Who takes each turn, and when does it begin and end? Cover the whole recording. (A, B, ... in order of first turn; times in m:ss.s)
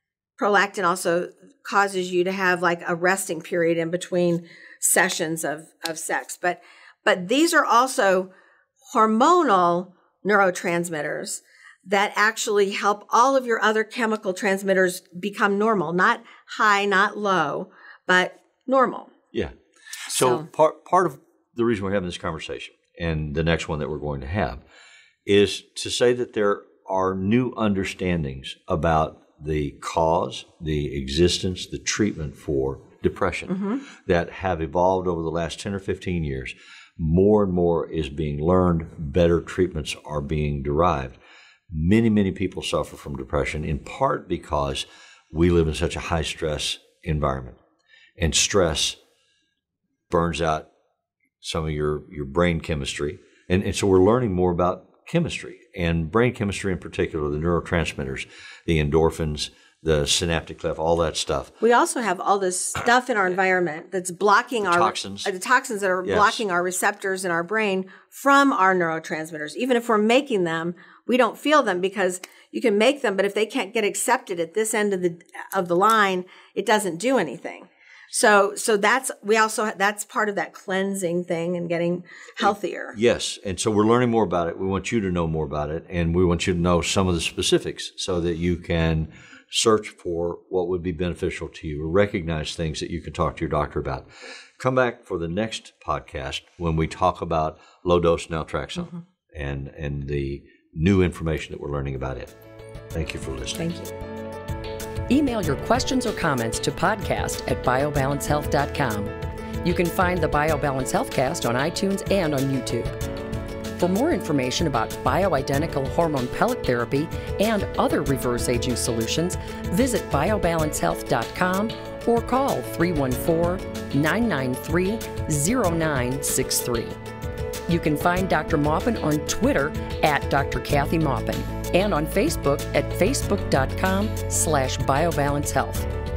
0:00.4-0:08.3 A
0:08.9-0:19.1 A
0:20.0-0:24.6 B
0:20.1-0:20.4 A
0:25.2-0:41.2 B
0:33.5-0:33.8 A
0:41.7-0:47.6 B
0:48.2-0:49.0 B
0:50.1-0:50.7 B
0:51.4-1:01.5 B
1:01.6-1:23.0 A
1:04.6-1:05.3 B
1:06.0-1:06.4 B
1:22.4-1:34.1 B
1:34.6-1:42.3 B
1:42.9-1:43.6 B
1:43.6-1:43.9 A
1:45.1-1:53.0 C
1:53.8-2:07.0 C
2:07.7-2:15.9 C